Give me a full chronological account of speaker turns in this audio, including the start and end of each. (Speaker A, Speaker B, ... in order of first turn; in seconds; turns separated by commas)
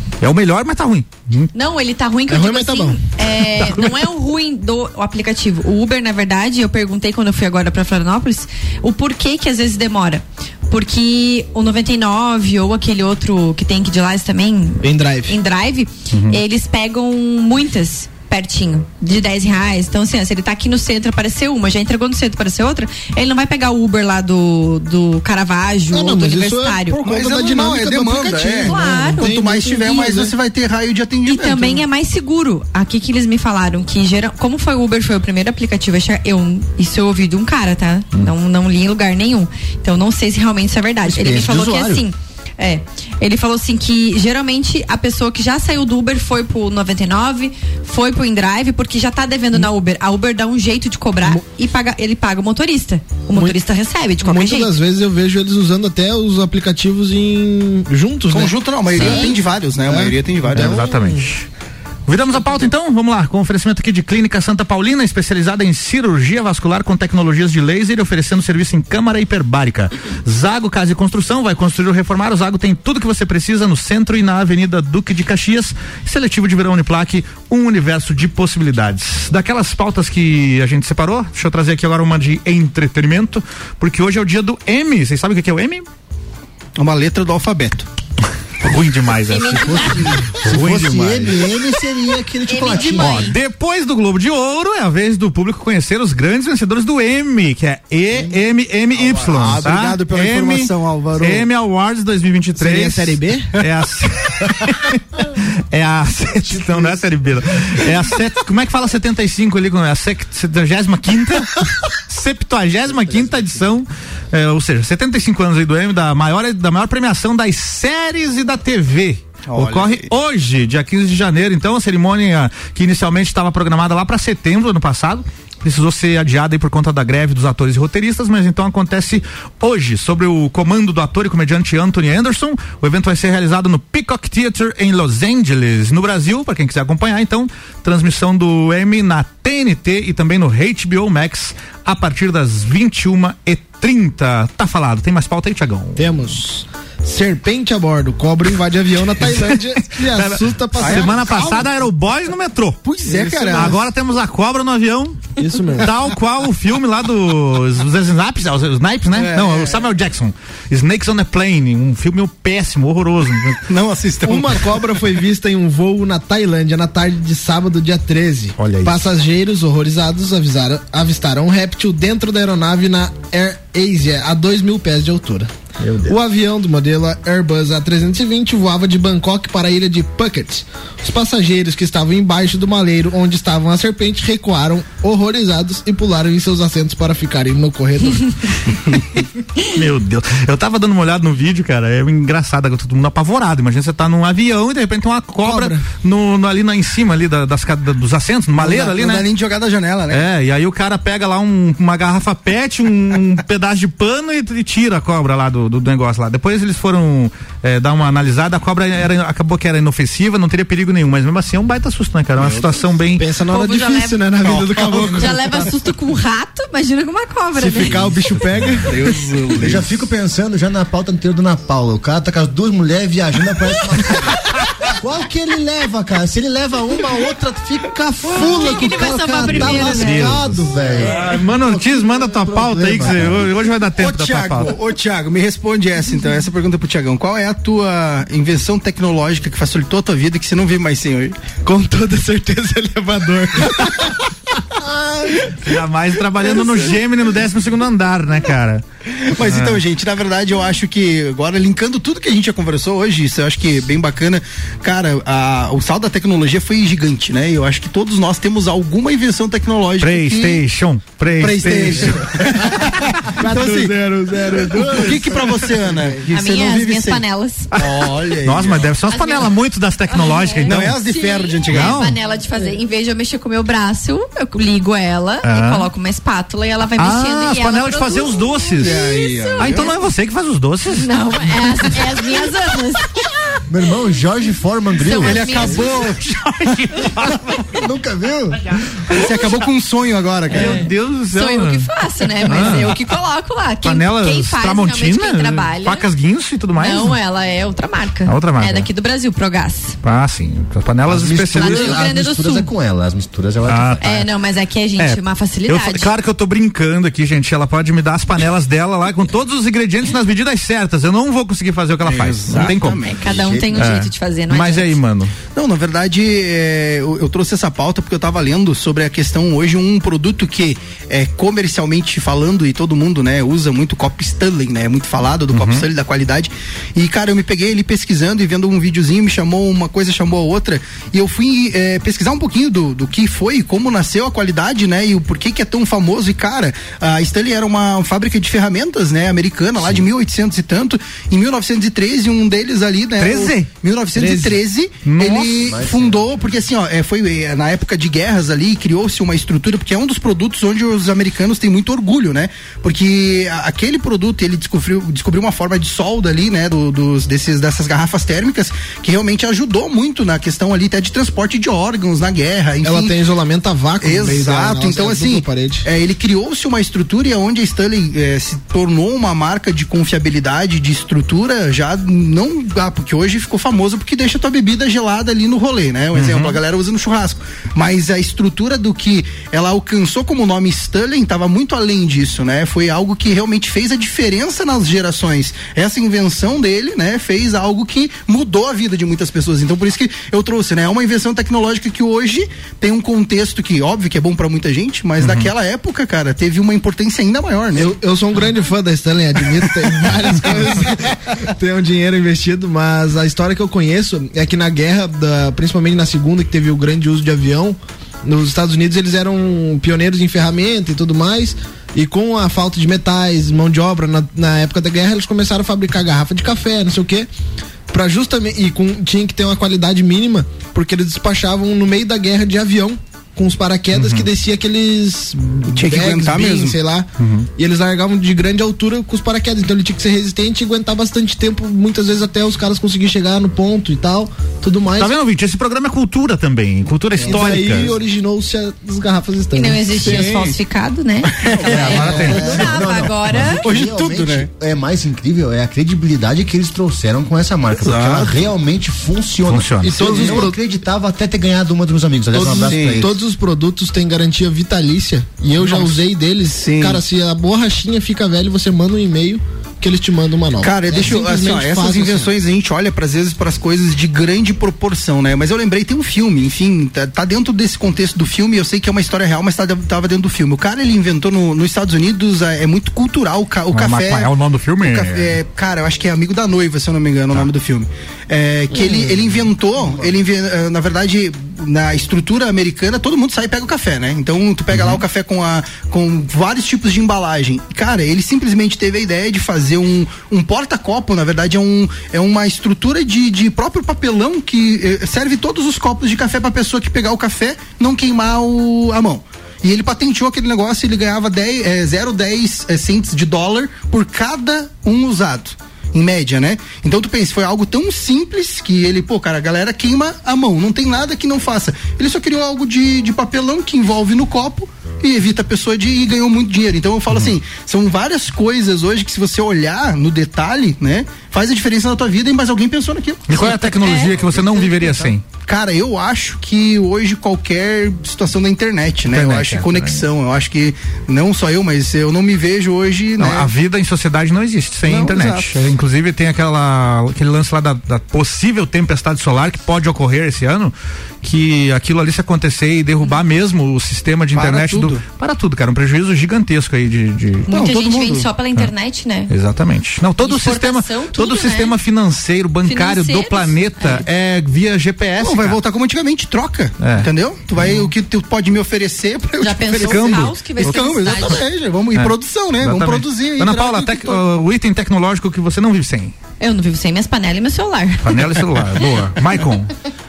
Speaker A: 0.2-1.5, Speaker B: 1.5-27.0, Speaker C: 2.3-3.0, Speaker A: 3.3-3.9, Speaker C: 14.8-15.3, Speaker A: 16.1-16.4, Speaker C: 25.9-30.3, Speaker D: 27.0-31.8, Speaker B: 28.6-29.2, Speaker B: 29.9-30.2, Speaker B: 31.2-54.7, Speaker E: 41.0-42.0, Speaker C: 54.2-61.2, Speaker D: 58.3-60.9, Speaker B: 58.9-59.4, Speaker A: 60.5-61.5, Speaker A: 62.1-85.8, Speaker D: 86.8-87.8, Speaker A: 88.6-91.6, Speaker B: 89.2-90.2, Speaker E: 90.0-93.3, Speaker B: 92.5-93.3, Speaker A: 92.7-146.0, Speaker D: 99.0-101.5, Speaker C: 102.6-103.5, Speaker C: 106.5-106.9, Speaker D: 119.5-120.1, Speaker C: 146.0-151.7, Speaker A: 149.2-152.8, Speaker D: 150.8-151.6, Speaker D: 152.8-153.8, Speaker C: 153.1-153.8, Speaker A: 153.5-163.6, Speaker C: 155.4-155.9, Speaker D: 159.1-159.9, Speaker D: 163.7-164.9, Speaker C: 164.2-175.5, Speaker A: 168.6-169.0, Speaker A: 175.8-176.1, Speaker C: 176.1-188.5, Speaker A: 189.7-199.2, Speaker C: 195.4-195.8, Speaker D: 198.6-200.3, Speaker A: 200.1-213.2, Speaker D: 212.4-212.8, Speaker C: 213.2-215.7, Speaker B: 213.5-214.2, Speaker D: 214.4-215.3, Speaker A: 214.8-215.3, Speaker B: 214.9-218.0, Speaker C: 217.6-218.9, Speaker E: 217.9-218.9, Speaker D: 218.8-220.1, Speaker E: 219.6-233.5, Speaker B: 228.3-230.3, Speaker C: 229.4-230.8, Speaker A: 229.8-234.7, Speaker D: 234.0-241.4, Speaker C: 241.6-244.2, Speaker A: 245.6-248.8, Speaker D: 249.1-260.6, Speaker A: 249.4-249.8, Speaker A: 260.0-262.2, Speaker D: 261.4-264.0, Speaker C: 263.4-265.6, Speaker D: 264.8-267.2, Speaker E: 264.9-265.4, Speaker B: 266.3-267.7, Speaker A: 267.7-271.0, Speaker D: 267.7-268.9, Speaker B: 269.1-269.6, Speaker B: 270.1-279.9, Speaker D: 270.6-272.1, Speaker A: 271.7-272.2, Speaker A: 275.4-275.9, Speaker A: 277.0-279.0, Speaker D: 278.8-279.9, Speaker A: 279.6-282.0, Speaker B: 280.9-283.6, Speaker E: 283.7-285.8, Speaker B: 285.0-286.0, Speaker D: 285.2-286.2, Speaker A: 285.6-287.6, Speaker E: 287.7-288.8, Speaker D: 289.1-290.9, Speaker A: 290.5-291.9, Speaker B: 290.5-290.8, Speaker B: 291.3-296.1, Speaker A: 292.5-293.0, Speaker A: 293.8-297.2, Speaker B: 296.8-300.0, Speaker A: 298.2-298.9, Speaker A: 300.0-302.0, Speaker E: 301.1-304.2, Speaker B: 301.6-302.7, Speaker A: 303.6-304.2, Speaker B: 304.0-306.1, Speaker A: 305.0-313.0, Speaker D: 312.0-313.3, Speaker B: 313.0-314.9, Speaker E: 313.2-313.9, Speaker A: 313.7-315.3, Speaker D: 315.5-363.1, Speaker A: 325.5-325.9, Speaker A: 339.8-340.1, Speaker A: 343.2-345.7, Speaker E: 345.6-346.6, Speaker C: 362.8-365.8, Speaker D: 364.0-397.9, Speaker A: 376.1-376.6, Speaker A: 395.2-395.5, Speaker C: 397.7-417.3, Speaker C: 417.9-435.1, Speaker A: 423.9-424.3, Speaker D: 425.7-426.8, Speaker A: 427.2-427.5, Speaker A: 434.9-437.9, Speaker C: 437.2-440.3, Speaker E: 437.6-437.9, Speaker B: 439.5-443.7, Speaker D: 439.9-440.6, Speaker D: 441.3-442.2, Speaker E: 441.5-453.1, Speaker A: 441.6-442.7, Speaker D: 443.5-444.5, Speaker D: 447.7-448.4, Speaker A: 449.4-450.3, Speaker D: 449.8-450.6, Speaker C: 450.1-450.4, Speaker C: 452.3-462.3, Speaker D: 452.4-453.1, Speaker D: 455.6-457.0, Speaker D: 460.6-523.7, Speaker A: 473.7-475.4, Speaker E: 478.9-480.2, Speaker A: 484.7-485.0, Speaker A: 523.3-525.2, Speaker B: 523.6-524.1, Speaker E: 524.0-525.1, Speaker D: 525.4-533.5, Speaker A: 529.1-530.1, Speaker A: 533.2-547.5, Speaker D: 534.9-535.6, Speaker D: 544.3-545.0, Speaker B: 547.5-549.3, Speaker D: 547.5-548.3, Speaker A: 549.3-555.6, Speaker B: 550.2-551.8, Speaker B: 552.6-554.0, Speaker D: 555.2-564.2, Speaker A: 556.8-557.9, Speaker B: 559.4-561.4, Speaker A: 559.8-561.4, Speaker A: 561.9-566.1, Speaker B: 566.4-568.4, Speaker A: 568.0-569.7